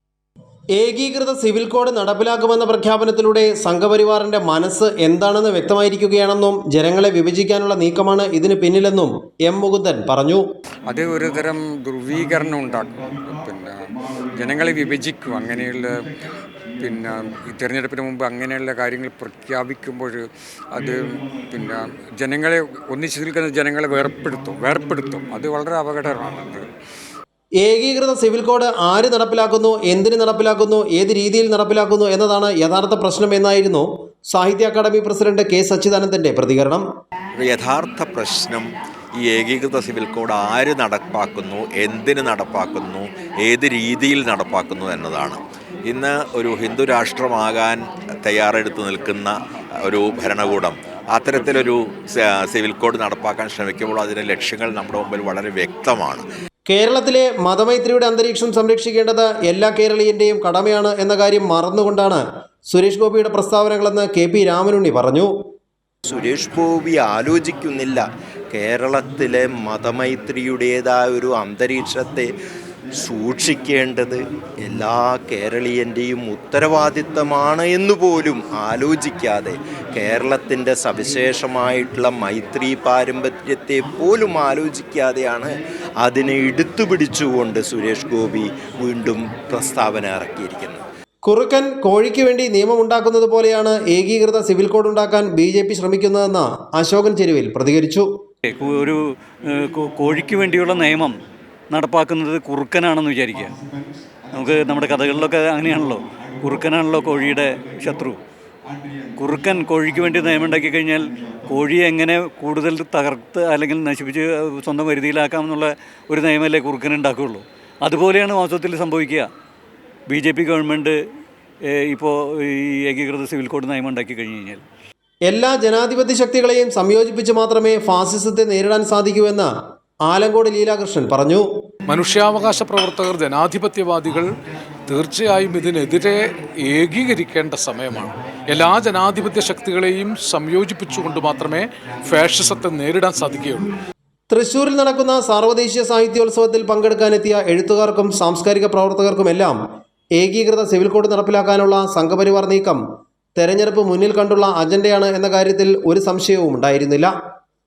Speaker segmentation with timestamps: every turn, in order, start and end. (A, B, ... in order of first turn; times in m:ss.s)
0:00.8-0:10.4 A
0:10.9-0:13.8 B
0:14.4-0:16.3 B
0:16.8-0:26.7 B
0:27.6-0:36.8 A
0:37.4-0:38.7 C
0:39.2-0:56.3 C
0:56.7-1:05.3 A
1:06.1-1:12.3 D
1:13.0-1:30.8 D
1:31.2-1:38.1 A
1:38.4-1:39.0 E
1:39.5-1:41.1 E
1:41.7-1:43.6 E
1:44.3-1:48.2 E
1:49.2-1:59.3 E
2:00.1-2:01.0 E
2:01.8-2:04.6 E
2:05.3-2:09.5 A
2:10.1-2:11.5 A
2:11.9-2:14.4 F
2:14.9-2:23.7 F
2:24.3-2:29.6 A
2:30.2-2:32.8 A
2:33.4-2:37.1 A